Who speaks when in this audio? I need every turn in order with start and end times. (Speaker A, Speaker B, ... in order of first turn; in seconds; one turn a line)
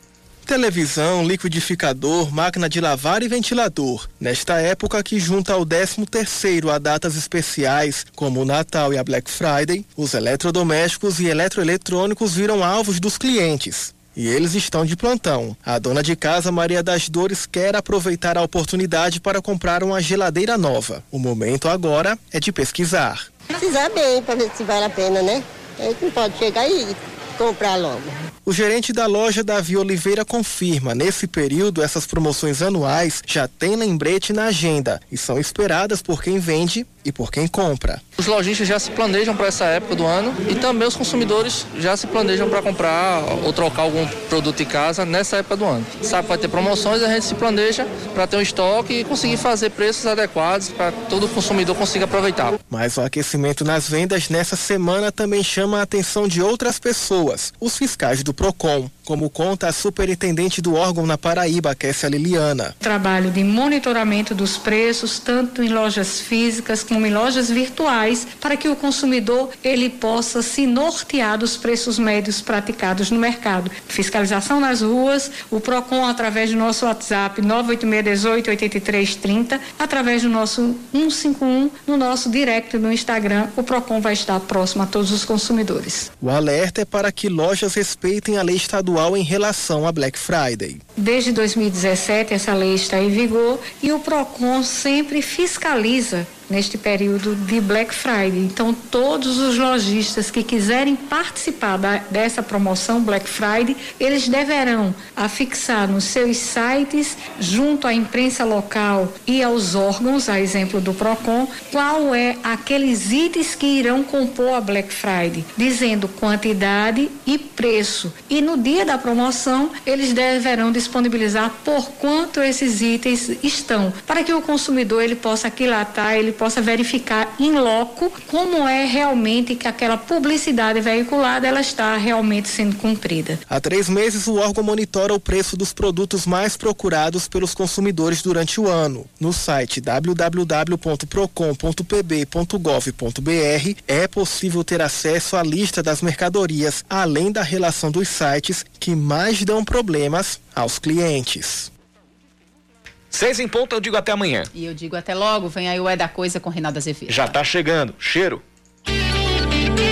Speaker A: 0.5-23.3
Speaker B: 23.6-28.1
Speaker A: 28.4-38.0
Speaker C: 38.2-52.5
Speaker A: 52.7-62.7
Speaker D: 62.8-86.1
Speaker A: 86.2-90.8
Speaker D: 91.0-133.4
Speaker A: 133.5-151.7
Speaker E: 153.1-154.5
Speaker F: 154.5-157.3
Speaker E: 157.1-158.4